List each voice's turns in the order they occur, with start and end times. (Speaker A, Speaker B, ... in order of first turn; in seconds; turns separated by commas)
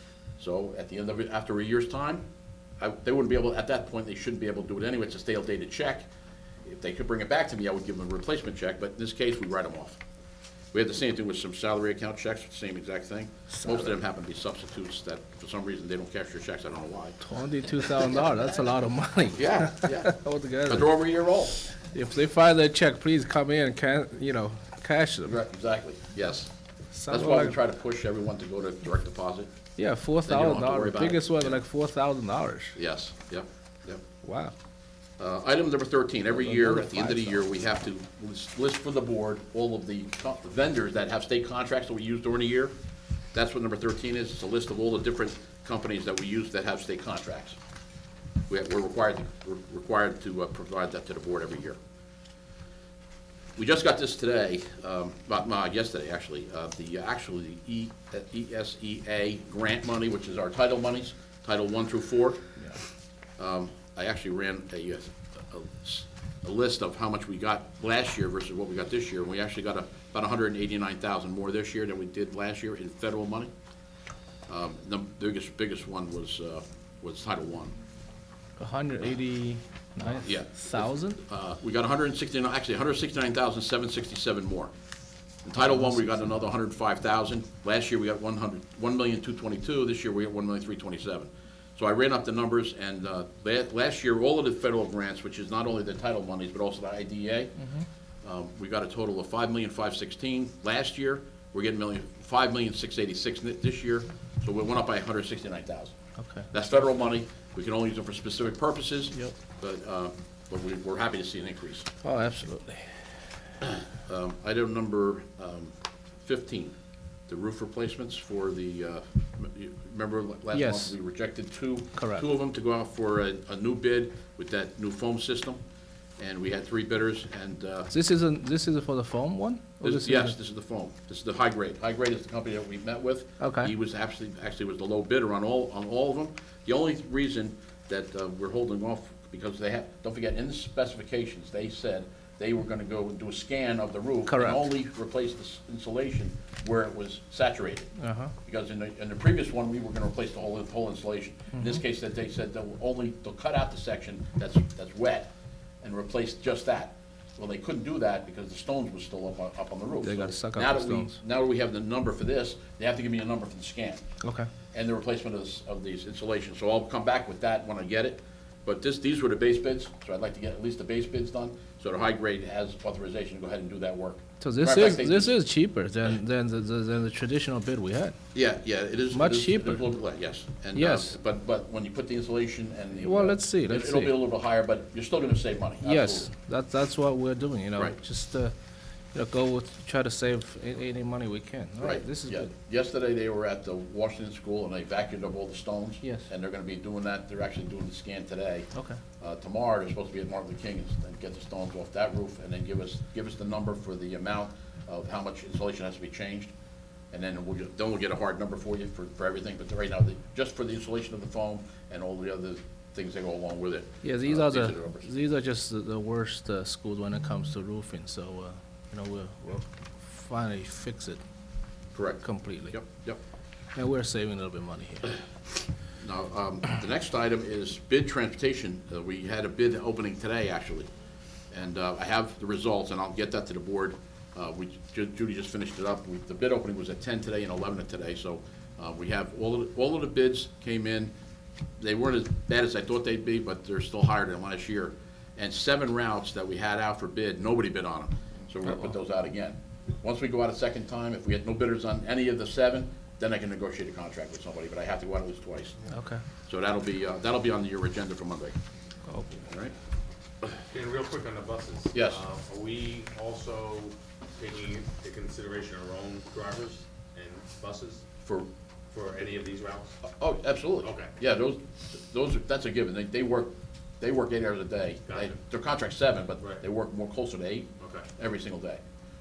Speaker A: 0.4-2.2, Speaker A: 2.8-6.1, Speaker A: 6.7-10.0, Speaker A: 10.7-17.2, Speaker B: 13.5-13.9, Speaker B: 17.2-20.9, Speaker A: 19.4-20.1, Speaker A: 20.7-21.6, Speaker B: 21.7-25.4, Speaker A: 25.2-26.5, Speaker B: 26.9-27.6, Speaker A: 27.1-29.5, Speaker B: 29.8-32.8, Speaker A: 30.2-31.6, Speaker A: 32.8-34.0, Speaker B: 34.2-34.5, Speaker A: 35.2-42.7, Speaker B: 36.3-37.5, Speaker A: 43.3-47.6, Speaker A: 48.5-51.8, Speaker A: 53.6-62.7, Speaker A: 63.4-73.5, Speaker A: 74.5-77.8, Speaker B: 78.6-81.2, Speaker A: 80.2-84.7, Speaker A: 85.5-97.6, Speaker B: 85.6-86.4, Speaker B: 97.6-97.8, Speaker A: 98.2-105.9, Speaker B: 106.2-106.5, Speaker A: 106.5-111.9, Speaker B: 112.0-112.9, Speaker A: 113.6-116.8, Speaker A: 117.3-125.6, Speaker B: 120.5-120.9, Speaker B: 122.0-122.2, Speaker A: 126.2-127.9, Speaker B: 127.9-130.3, Speaker A: 129.8-155.3, Speaker B: 133.4-133.7, Speaker B: 144.3-144.6, Speaker B: 148.0-148.3, Speaker B: 151.6-151.8, Speaker A: 155.8-164.0, Speaker B: 160.0-161.2, Speaker B: 164.2-164.5, Speaker A: 164.7-175.4, Speaker B: 174.4-178.2, Speaker A: 178.3-186.3, Speaker B: 179.1-179.8, Speaker B: 180.7-181.1, Speaker B: 183.0-184.2, Speaker B: 185.8-188.5, Speaker B: 189.1-192.5, Speaker A: 191.8-198.7, Speaker A: 199.2-206.5, Speaker A: 207.1-215.1, Speaker B: 214.0-221.2, Speaker A: 221.9-223.2, Speaker B: 222.2-222.8, Speaker B: 223.8-225.1, Speaker A: 226.0-230.9, Speaker A: 231.5-241.1, Speaker A: 241.8-255.9, Speaker B: 248.7-248.9, Speaker B: 255.9-256.2, Speaker A: 256.5-258.6, Speaker A: 259.4-259.7, Speaker C: 260.7-268.0, Speaker A: 261.9-262.2, Speaker C: 268.9-269.9, Speaker A: 270.0-278.8, Speaker C: 270.8-271.1, Speaker C: 275.1-275.4, Speaker C: 277.8-278.1